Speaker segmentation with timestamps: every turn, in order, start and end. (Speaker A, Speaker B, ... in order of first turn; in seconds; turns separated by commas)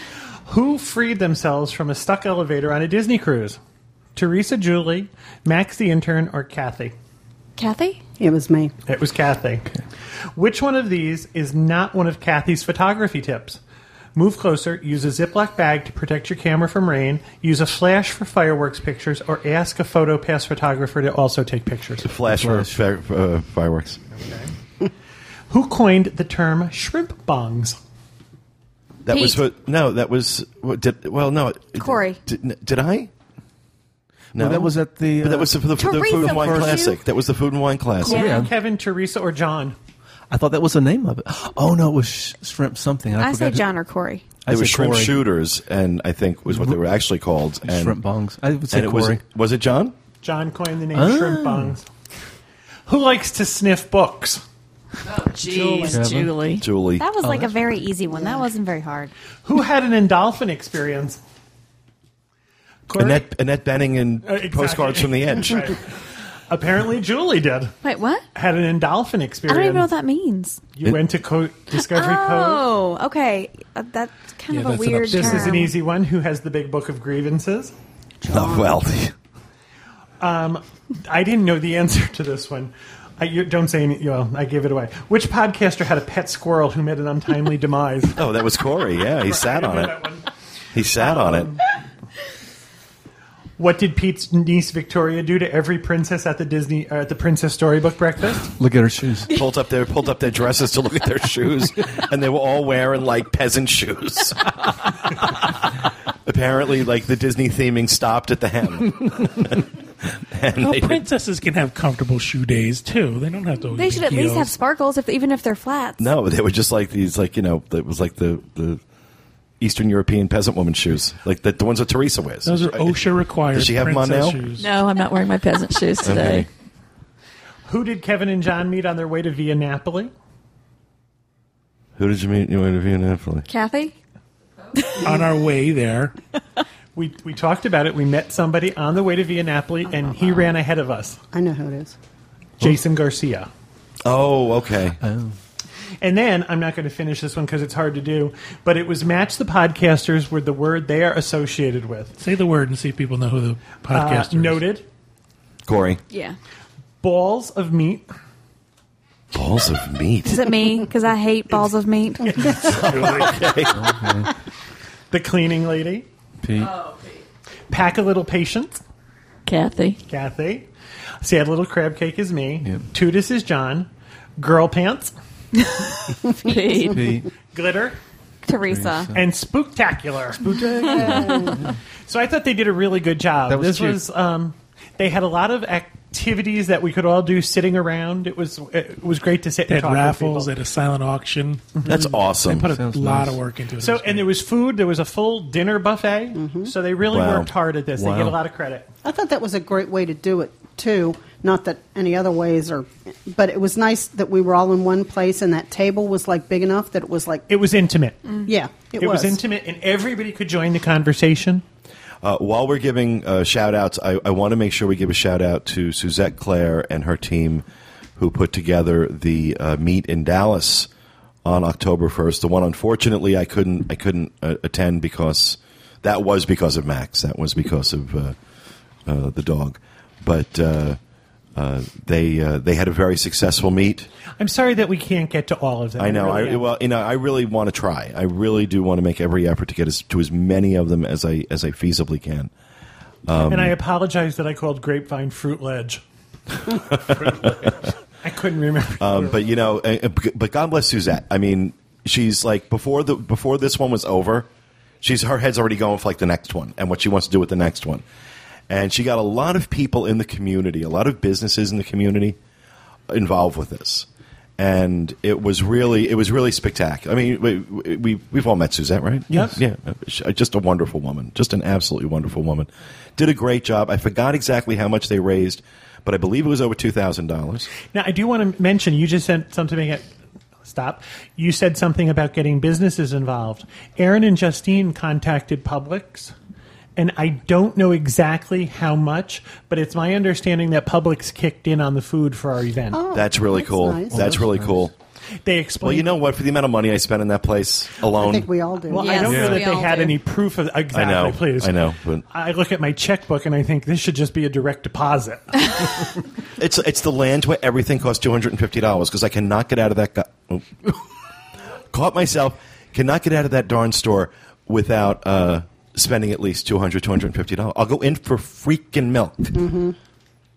Speaker A: 0.5-3.6, Speaker A: 4.2-7.0, Speaker B: 7.6-8.0, Speaker C: 8.2-8.7, Speaker A: 8.9-9.7, Speaker A: 10.3-13.6, Speaker A: 14.2-22.1, Speaker D: 22.0-24.0, Speaker E: 22.3-22.8, Speaker A: 24.1-24.5, Speaker A: 25.5-27.8, Speaker D: 29.1-33.1, Speaker B: 29.1-29.4, Speaker B: 31.8-32.2, Speaker D: 34.3-38.3, Speaker E: 34.4-35.6, Speaker B: 35.8-37.0, Speaker E: 36.1-36.8, Speaker A: 38.0-39.8, Speaker B: 38.1-38.5, Speaker E: 38.1-38.5, Speaker E: 40.3-43.7, Speaker B: 43.2-44.2, Speaker E: 44.5-45.2, Speaker D: 44.5-48.0, Speaker E: 46.5-46.8, Speaker E: 47.6-49.2, Speaker D: 48.7-50.0, Speaker A: 50.2-51.9, Speaker E: 51.0-51.8, Speaker A: 52.9-54.4, Speaker F: 55.3-56.6, Speaker A: 55.4-56.0, Speaker E: 55.9-56.3, Speaker D: 56.6-57.1, Speaker B: 57.0-59.1, Speaker A: 59.5-61.2, Speaker A: 62.9-63.2, Speaker D: 63.0-65.8, Speaker A: 64.2-65.9, Speaker A: 66.5-67.8, Speaker B: 67.8-68.3, Speaker A: 68.3-69.9, Speaker B: 69.5-70.6, Speaker A: 70.7-72.7, Speaker B: 71.7-75.7, Speaker G: 74.5-75.7, Speaker A: 75.1-77.8, Speaker C: 78.2-78.8, Speaker D: 78.3-79.1, Speaker A: 80.2-88.3, Speaker D: 88.2-90.0, Speaker A: 89.1-90.3, Speaker D: 90.7-91.5, Speaker A: 91.0-91.6, Speaker A: 93.6-98.5, Speaker E: 98.6-99.3, Speaker D: 99.3-104.5, Speaker D: 106.2-111.0, Speaker G: 110.6-114.5, Speaker B: 113.8-116.1, Speaker D: 116.0-118.8, Speaker D: 119.6-123.0, Speaker G: 122.5-124.7, Speaker D: 123.5-124.4, Speaker F: 124.6-126.5, Speaker D: 126.0-126.5, Speaker A: 127.7-130.1, Speaker D: 132.0-133.5, Speaker B: 133.5-133.9, Speaker G: 135.0-136.2, Speaker A: 136.9-141.2, Speaker C: 141.3-141.9, Speaker A: 142.6-143.5, Speaker D: 144.0-145.0, Speaker E: 145.0-145.3, Speaker A: 146.0-152.1, Speaker G: 152.2-154.7, Speaker A: 153.9-154.9, Speaker D: 155.7-156.0, Speaker B: 156.1-156.4, Speaker A: 157.0-158.1, Speaker D: 159.3-160.5, Speaker B: 160.2-162.6, Speaker A: 162.3-163.2, Speaker D: 162.5-163.9, Speaker G: 162.7-163.4, Speaker E: 163.8-164.3, Speaker A: 165.1-166.1, Speaker E: 166.4-166.8, Speaker A: 167.7-168.8, Speaker F: 169.5-170.0, Speaker A: 170.1-170.7, Speaker A: 171.2-175.2, Speaker F: 176.4-177.2, Speaker E: 176.9-177.3, Speaker A: 177.4-178.0, Speaker B: 178.4-179.1, Speaker E: 178.7-179.2, Speaker A: 179.1-181.5, Speaker C: 180.8-181.6, Speaker A: 182.1-190.5, Speaker E: 183.5-184.0, Speaker G: 189.7-194.3, Speaker D: 191.8-192.7, Speaker E: 192.5-193.4, Speaker A: 193.8-198.9, Speaker C: 196.4-196.7, Speaker D: 197.1-197.5, Speaker E: 198.0-198.4, Speaker C: 199.0-207.5, Speaker A: 207.5-208.4, Speaker C: 208.5-209.4, Speaker A: 208.9-211.6, Speaker D: 212.2-217.7, Speaker D: 218.2-220.9, Speaker D: 221.4-228.4, Speaker D: 229.1-231.0, Speaker D: 231.6-234.1, Speaker A: 234.4-236.7, Speaker D: 236.0-242.5, Speaker D: 243.3-243.8, Speaker A: 243.5-246.0, Speaker D: 246.9-247.7, Speaker A: 248.2-249.4, Speaker D: 249.0-254.5, Speaker D: 255.0-258.0, Speaker D: 258.7-262.4, Speaker D: 263.1-264.1, Speaker D: 264.6-277.7, Speaker A: 277.9-280.1, Speaker A: 280.6-286.3, Speaker A: 287.0-293.0, Speaker C: 292.9-294.4, Speaker D: 293.1-294.9, Speaker E: 294.1-294.9, Speaker A: 295.4-296.2, Speaker D: 295.8-298.5, Speaker C: 298.1-299.3, Speaker A: 298.9-306.1, Speaker B: 298.9-300.2, Speaker E: 299.3-299.6, Speaker D: 300.9-302.2, Speaker D: 306.6-311.0, Speaker D: 311.9-319.6, Speaker C: 319.6-320.0